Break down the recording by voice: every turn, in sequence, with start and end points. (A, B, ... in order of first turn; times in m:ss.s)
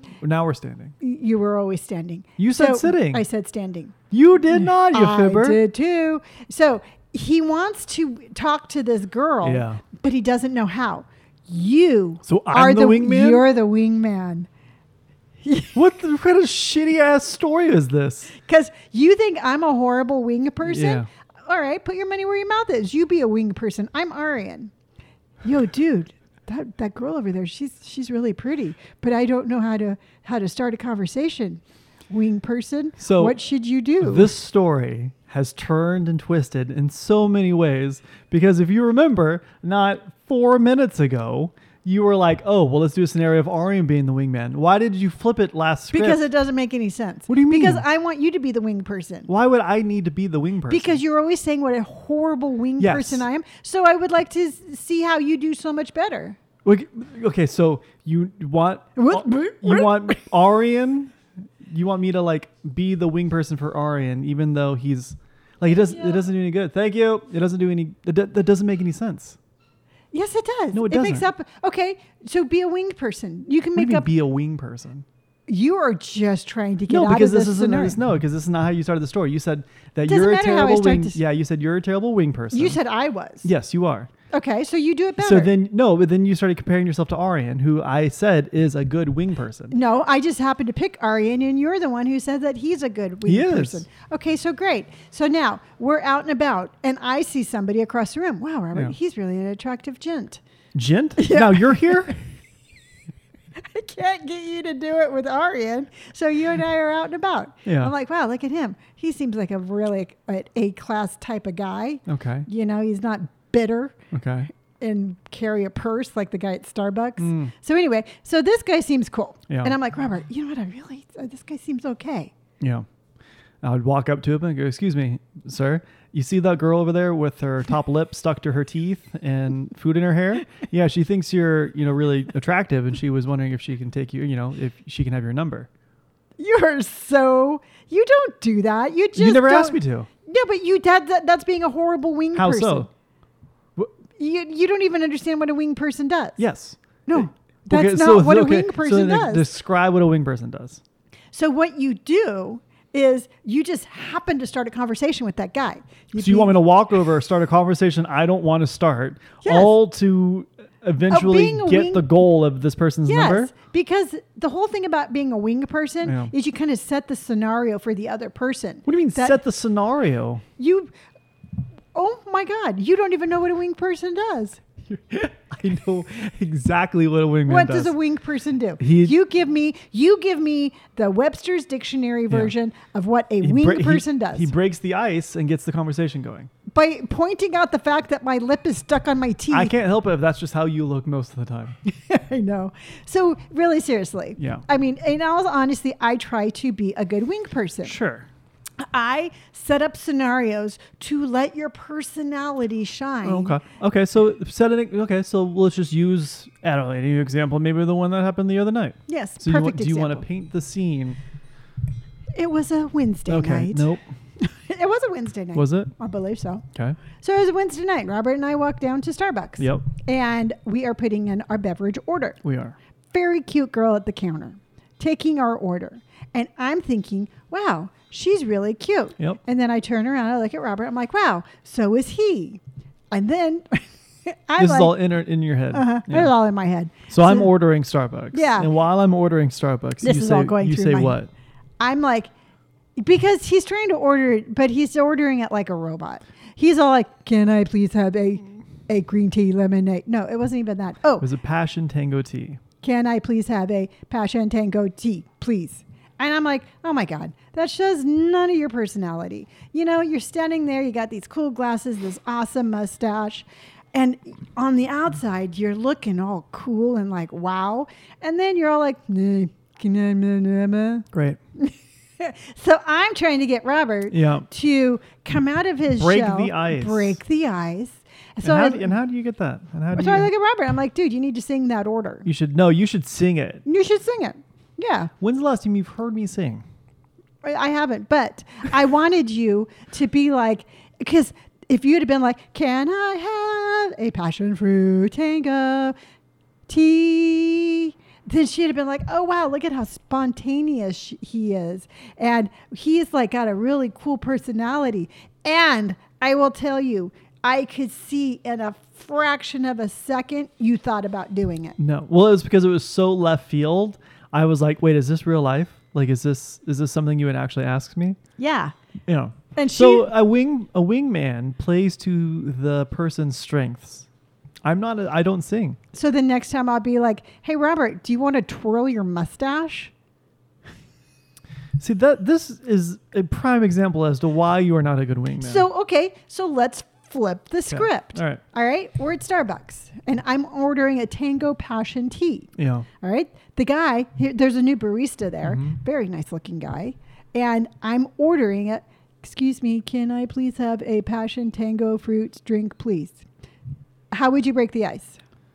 0:00.2-0:00.9 A
0:01.0-0:03.9 B
0:02.4-0:03.2 A
0:04.1-0:05.6 A
0:04.5-0:14.5 B
0:09.4-0:09.8 A
0:12.2-0:13.4 A
0:15.4-0:15.8 B
0:15.7-0:18.3 A
0:18.4-0:24.7 B
0:20.6-0:21.1 A
0:25.4-0:34.3 B
0:33.0-0:33.4 A
0:34.0-0:46.2 A
0:45.9-0:49.3 B
0:47.3-0:47.8 A
0:49.3-0:51.0 A
0:50.7-0:56.4 B
0:52.8-0:53.2 A
0:56.6-1:09.4 A
0:59.0-1:00.2 B
1:05.8-1:06.3 B
1:10.1-1:14.1 B
1:10.7-1:11.3 A
1:13.8-1:15.0 A
1:15.5-1:18.0 B
1:16.9-1:22.8 A
1:20.1-1:21.2 B
1:22.5-1:23.5 B
1:23.4-1:24.1 A
1:24.3-1:25.5 B
1:25.2-1:29.8 A
1:29.7-1:40.4 B
1:33.2-1:33.8 A
1:40.7-1:42.2 A
1:41.2-1:42.2 B
1:43.5-1:54.0 B
1:47.6-1:47.9 A
1:52.1-1:52.5 A
1:54.1-1:54.5 A
1:54.8-2:02.3 B
1:57.2-1:57.5 A
1:59.5-1:59.7 A
2:02.6-2:02.8 A
2:03.6-2:15.7 A
2:16.4-2:22.9 B
2:19.2-2:20.1 A
2:22.3-2:22.9 A
2:24.2-2:26.4 B
2:26.4-2:30.8 A
2:27.0-2:29.4 B
2:31.3-2:36.6 B
2:36.2-2:43.5 A
2:39.4-2:39.7 B
2:41.1-2:42.1 B
2:43.0-2:49.4 B
2:46.0-2:46.3 A
2:48.8-2:50.4 A
2:50.6-2:50.9 B
2:51.9-2:54.6 B
2:54.9-2:57.9 A
2:57.5-3:04.5 B
2:58.8-2:59.1 A
3:03.4-3:06.5 A
3:06.7-3:09.7 B
3:09.5-3:11.8 A
3:11.8-3:18.0 B
3:14.4-3:14.6 A
3:17.8-3:18.3 A
3:18.8-3:23.6 B
3:23.2-3:31.2 A
3:29.1-3:30.2 B
3:32.3-3:33.9 B
3:33.3-3:34.0 A
3:34.4-3:36.6 B
3:35.5-3:35.9 A
3:36.7-3:37.0 A
3:37.2-3:42.4 B
3:39.6-3:39.9 A
3:42.4-3:42.8 A
3:43.1-3:55.1 B
3:54.6-3:56.3 A
3:55.7-3:57.5 B
3:57.1-4:01.3 A
3:58.3-3:58.7 B
4:00.0-4:01.2 B
4:01.8-4:02.3 B
4:03.0-4:11.3 B
4:11.2-4:12.6 A
4:12.8-4:38.9 B
4:31.1-4:31.4 A
4:34.1-4:34.5 A
4:36.0-4:37.2 A
4:38.4-4:40.3 A
4:39.9-4:42.2 B
4:42.2-4:43.6 A
4:43.6-4:45.1 B
4:45.2-4:46.6 A
4:47.4-4:55.9 B
4:56.7-5:11.8 B
5:11.8-5:18.2 A
5:18.4-5:18.7 B
5:19.1-5:24.1 A
5:19.6-5:20.1 B
5:24.6-5:25.8 A
5:25.9-5:29.9 B
5:31.8-5:35.6 A
5:35.4-5:53.2 B
5:37.7-5:38.4 A
5:42.6-5:42.9 A
5:45.4-5:45.8 A
5:54.1-5:55.2 B